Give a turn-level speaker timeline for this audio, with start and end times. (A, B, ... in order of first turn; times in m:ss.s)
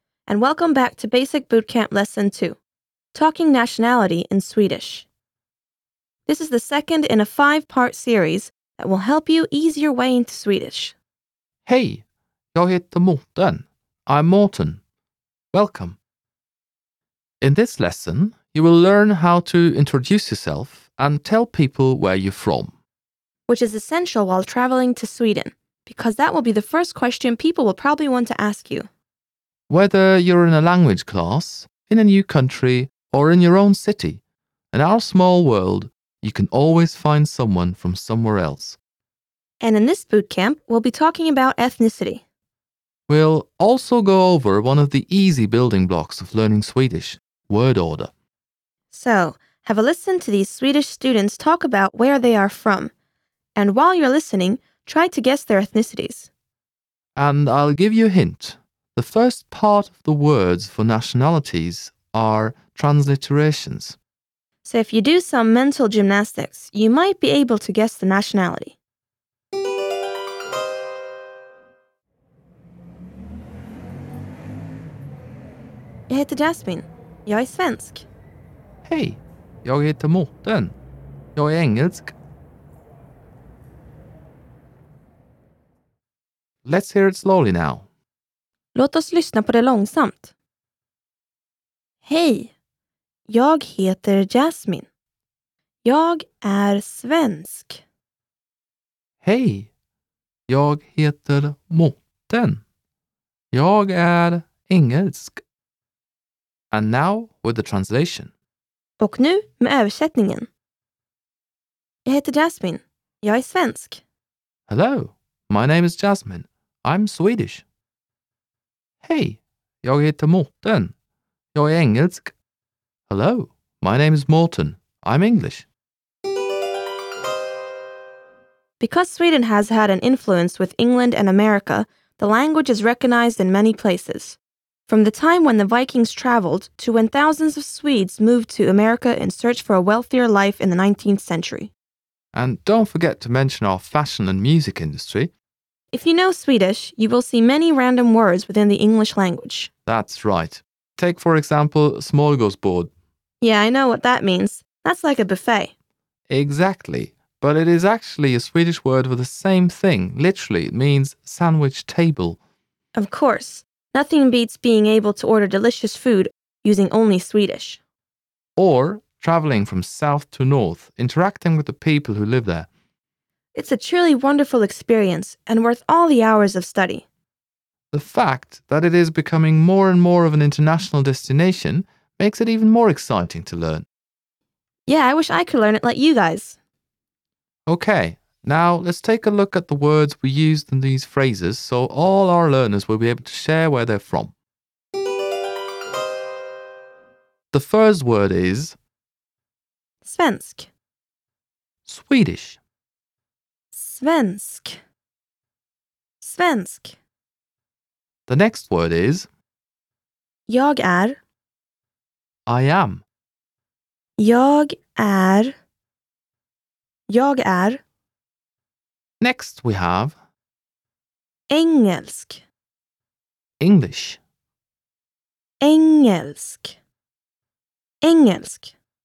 0:00.3-0:02.6 A
0:03.1-0:05.1 A
0:06.3-0:11.0 A
0:11.7-0:12.0 B
0:12.5-0:14.8 B
0:15.5-0:16.0 B
0:17.4-0:22.7 B
0:23.5-0:28.9 A
0:29.7-0:34.2 B
0:34.7-0:38.8 B
0:39.6-0:42.2 A
0:43.1-0:48.1 B
0:48.9-0:52.9 A
0:53.6-0:56.3 A
0:57.2-1:04.0 B
1:04.6-1:08.8 A
1:16.1-1:18.1 A
1:18.8-1:20.8 B
1:21.4-1:22.1 B
1:26.6-1:27.9 B
1:28.8-1:30.3 A
1:32.0-1:32.5 A
1:33.3-1:34.9 A
1:35.8-1:37.8 A
1:39.2-1:39.7 B
1:40.5-1:42.6 B
1:43.5-1:45.4 B
1:46.7-1:48.3 B
1:49.0-1:50.5 A
1:52.0-1:54.0 A
1:54.7-1:57.6 B
1:59.0-2:00.9 B
2:01.5-2:02.3 B
2:03.1-2:05.7 B
2:08.8-2:21.7 A
2:22.3-2:25.3 B
2:25.9-2:29.7 A
2:29.9-2:32.9 B
2:33.4-2:35.7 A
2:36.3-2:42.4 B
2:43.0-2:47.8 A
2:48.6-2:52.7 B
2:53.5-2:57.1 A
2:57.9-3:03.9 B
3:04.9-3:06.6 A
3:07.7-3:14.3 B
3:17.5-3:18.8 B
3:20.0-3:20.7 A
3:21.8-3:22.6 B
3:23.7-3:24.8 A
3:26.2-3:27.0 A
3:28.3-3:29.3 B
3:30.5-3:31.2 A
3:32.5-3:33.0 B
3:34.2-3:35.5 A
3:37.1-3:37.8 A
3:39.2-3:40.2 B
3:41.5-3:42.4 A
3:43.6-3:44.2 B
3:45.6-3:46.8 A
3:48.0-3:48.7 A